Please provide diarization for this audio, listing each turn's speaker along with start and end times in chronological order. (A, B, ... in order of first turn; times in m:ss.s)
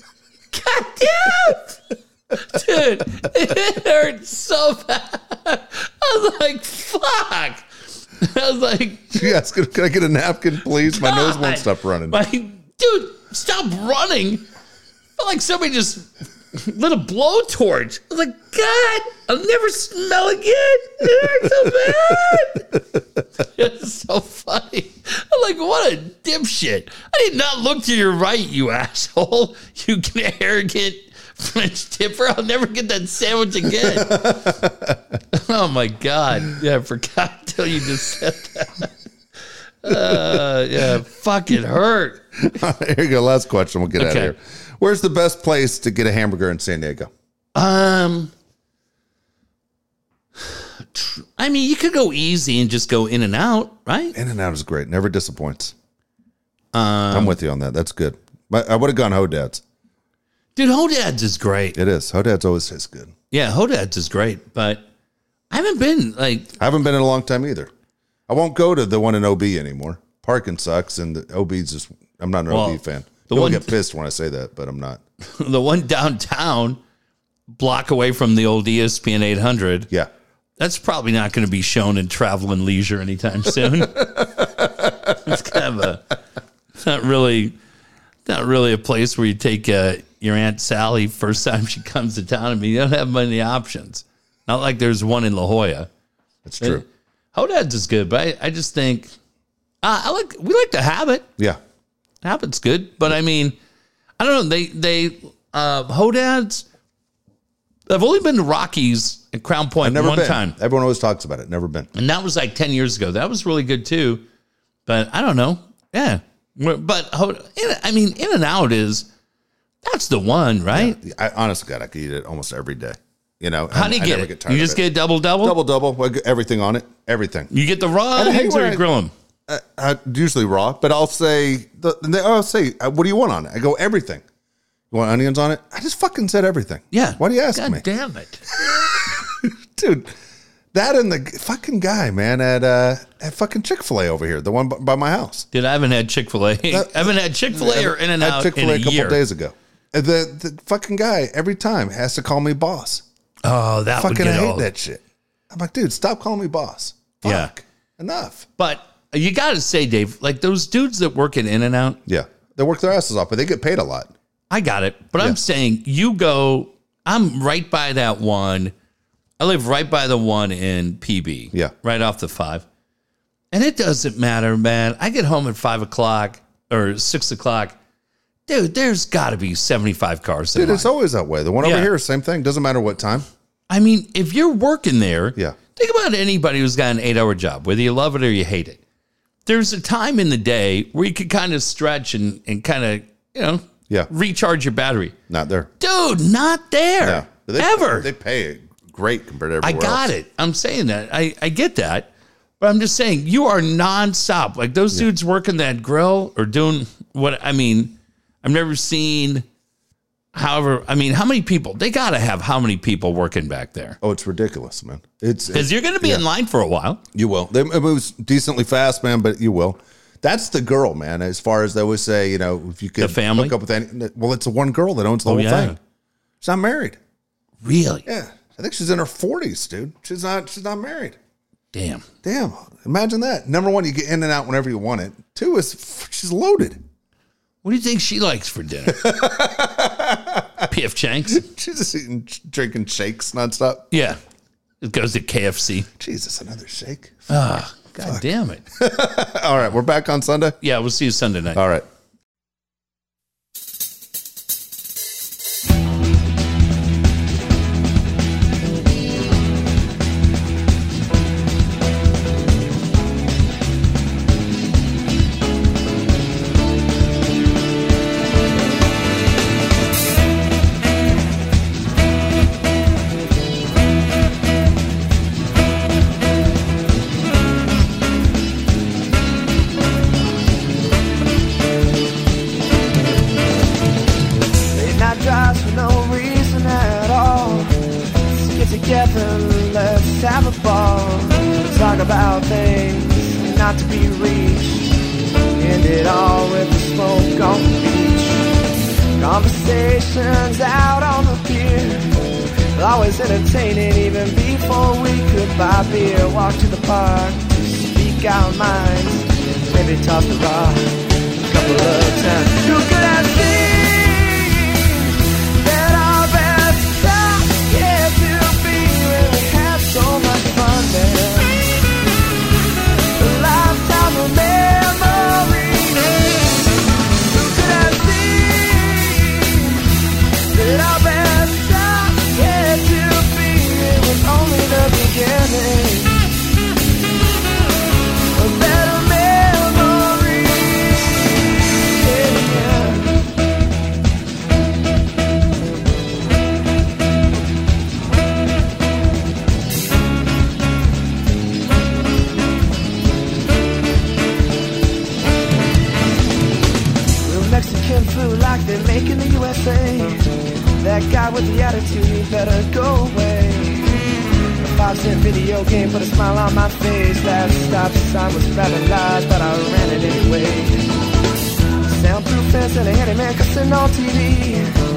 0:00.5-0:01.8 A
0:02.3-0:07.6 A
0:08.2-0:09.3 A
0:09.1-0:12.2 B
0:10.9-0:14.4 A
0:15.2-0:22.8 A
0:23.4-0:34.5 A
0:33.7-0:35.0 B
0:35.3-0:38.9 A
0:39.8-0:42.2 A
0:39.9-0:40.4 B
0:42.4-0:47.1 B
0:44.0-0:44.3 A
0:47.5-0:48.3 A
0:50.4-0:54.1 A
0:54.1-0:55.7 B
0:56.7-0:57.4 A
0:57.1-0:59.6 B
1:00.6-1:01.8 A
1:01.7-1:03.1 B
1:03.3-1:04.8 A
1:05.5-1:06.5 A
1:06.6-1:07.7 B
1:08.3-1:15.0 B
1:12.5-1:13.7 A
1:15.2-1:16.8 A
1:17.5-1:19.9 A
1:20.6-1:24.5 A
1:23.8-1:24.9 B
1:25.0-1:26.2 A
1:26.7-1:27.6 A
1:28.2-1:35.9 A
1:36.4-1:36.8 B
1:36.6-1:39.1 A
1:39.8-1:41.3 A
1:42.2-1:43.6 A
1:44.2-1:46.6 A
1:47.9-1:50.5 A
1:49.8-1:51.9 B
1:51.9-1:54.2 A
1:54.8-1:59.1 A
1:59.8-2:01.0 A
2:00.7-2:04.8 B
2:03.7-2:05.6 A
2:05.4-2:07.5 B
2:07.5-2:09.1 A
2:08.1-2:08.8 B
2:09.5-2:14.2 B
2:14.9-2:17.8 B
2:16.9-2:18.4 A
2:18.5-2:20.1 B
2:20.7-2:25.5 B
2:25.5-2:29.2 A
2:26.7-2:33.0 B
2:33.4-2:34.7 A
2:33.9-2:38.5 B
2:37.2-2:37.5 A
2:38.6-2:42.0 A
2:42.0-2:44.1 B
2:44.5-2:48.7 A
2:49.4-2:52.6 A
2:53.5-2:57.8 A
2:58.5-3:00.9 A
3:00.5-3:03.2 B
3:01.6-3:01.9 A
3:03.7-3:08.8 A
3:09.4-3:15.2 A
3:15.3-3:15.7 B
3:15.8-3:18.1 A
3:17.0-3:20.1 B
3:19.6-3:22.1 A
3:22.6-3:29.4 A
3:30.3-3:34.0 A
3:34.0-3:36.2 B
3:35.5-3:37.0 A
3:37.1-3:45.8 B
3:43.0-3:43.5 A
3:45.2-3:45.8 A
3:46.4-3:47.0 B
3:47.6-3:48.0 A
3:48.0-3:51.2 B
3:51.7-3:52.0 A
3:52.2-3:56.8 B
3:57.6-3:59.1 A
3:58.8-4:00.7 B
4:00.6-4:01.4 A
4:01.3-4:03.8 B
4:03.9-4:04.2 A
4:04.8-4:05.9 A
4:06.0-4:07.4 B
4:07.3-4:08.6 A
4:08.7-4:10.6 B
4:10.6-4:11.6 A
4:11.6-4:11.8 B
4:44.7-4:54.8 C
4:55.6-4:58.4 C
4:59.2-5:10.9 C
5:11.5-5:21.8 C
5:23.2-5:26.5 C
5:27.3-5:29.9 C
5:30.5-5:36.3 C
5:38.3-5:43.2 C
5:57.2-6:00.2 C
6:00.8-6:03.9 C
6:04.7-6:10.9 C
6:11.8-6:14.7 C